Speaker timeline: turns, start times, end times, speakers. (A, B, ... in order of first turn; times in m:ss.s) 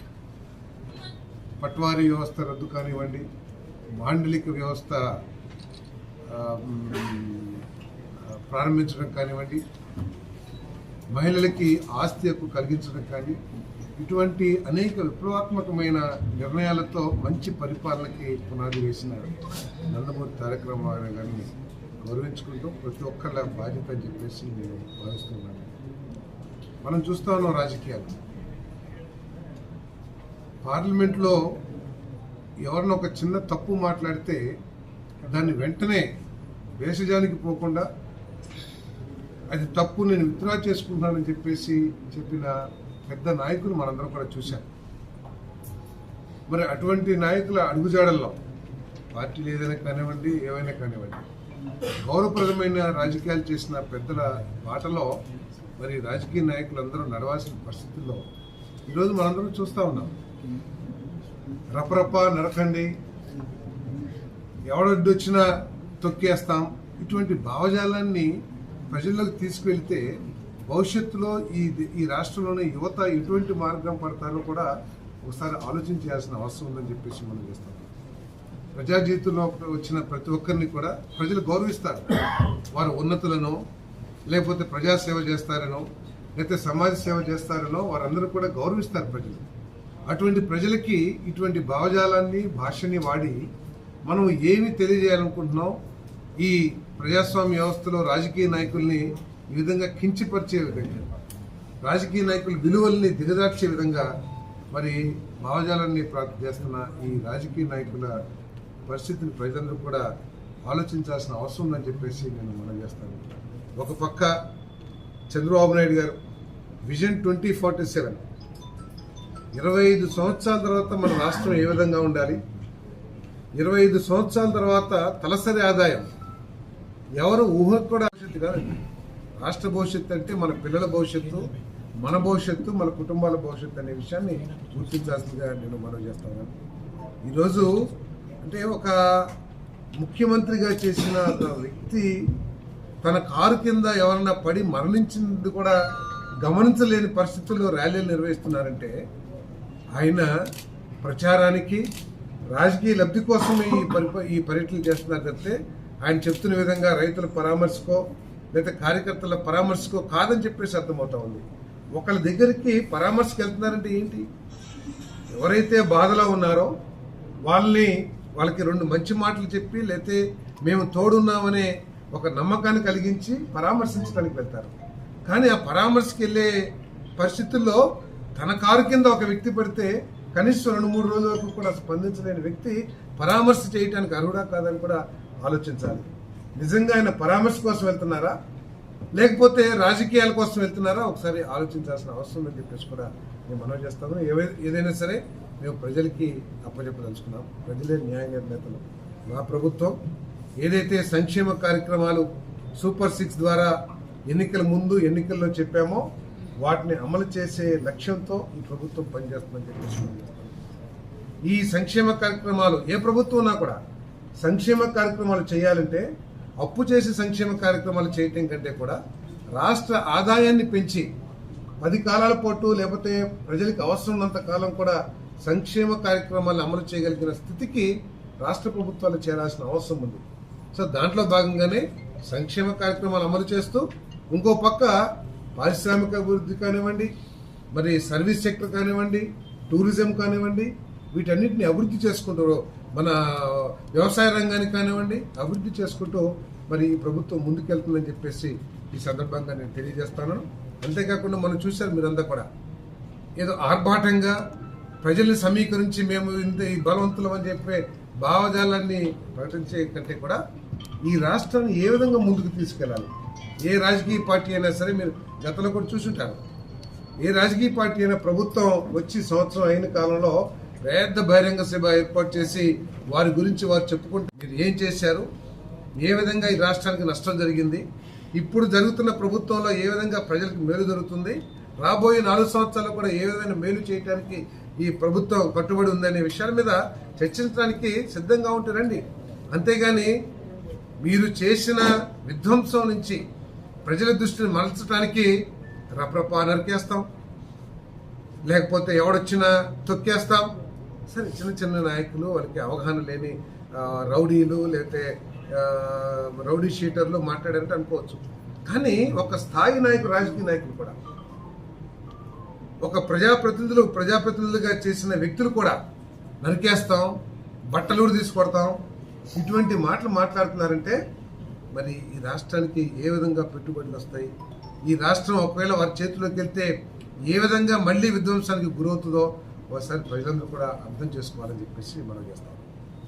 0:01.6-0:03.3 A
0:04.0-0:05.2 A
0:06.3-0:07.6 A
0:08.3-0:09.6 A
0:11.1-0:13.4 A
0:14.0-0:19.4 A
0:19.9-0:25.7 A
0:26.8-0:28.2 A
0:30.6-0:31.4 A
0:32.6-0:34.5 A
0:35.2-0:36.1 A
0:36.8-0:37.9 A
0:39.5-0:44.7 A
0:46.5-0:48.4 A
0:49.1-0:51.3 A
0:52.0-0:55.2 A
0:55.8-0:58.2 A
0:58.9-1:00.1 A
1:01.7-1:02.9 A
1:04.7-1:14.7 A
1:15.3-1:17.9 A
1:18.8-1:23.6 A
1:24.3-1:25.8 A
1:26.4-1:29.5 A
1:30.1-1:33.4 A
1:34.1-1:35.8 A
1:36.4-1:41.1 A
1:41.8-1:44.1 A
1:44.7-1:48.2 A
1:48.9-1:50.1 A
1:50.6-1:54.4 A
1:55.3-1:56.2 A
1:56.8-1:58.2 A
1:59.6-2:02.4 A
2:03.6-2:06.1 A
2:07.2-2:08.8 A
2:09.4-2:16.6 A
2:17.3-2:17.8 A
2:18.4-2:19.3 A
2:20.0-2:22.3 A
2:23.0-2:25.8 A
2:26.4-2:29.0 A
2:30.0-2:30.3 A
2:31.0-2:31.9 A
2:32.5-2:44.3 A
2:45.4-2:46.7 A
2:47.5-2:54.8 A
2:55.3-2:56.5 A
2:57.2-2:57.8 A
2:58.4-3:08.4 A
3:09.2-3:20.0 A
3:20.6-3:23.8 A
3:24.3-3:26.0 A
3:26.6-3:30.6 A
3:31.5-3:33.8 A
3:34.4-3:36.1 A
3:36.6-3:39.0 A
3:39.6-3:41.1 A
3:41.8-3:50.2 A
3:50.7-3:55.0 A
3:55.6-3:57.1 A
3:57.7-4:12.5 A
4:13.4-4:14.4 A
4:15.0-4:20.4 A
4:21.1-4:23.1 A
4:23.6-4:26.4 A
4:27.2-4:35.3 A
4:36.0-4:37.8 A
4:38.4-4:50.1 A
4:51.0-4:53.2 A
4:53.8-4:55.4 A
4:56.0-4:57.1 A
4:58.5-5:00.6 A
5:01.1-5:11.0 A
5:12.8-5:15.8 A
5:16.4-5:17.2 A
5:17.7-5:18.8 A
5:19.3-5:21.0 A
5:21.8-5:24.3 A
5:24.9-5:26.8 A
5:27.3-5:32.7 A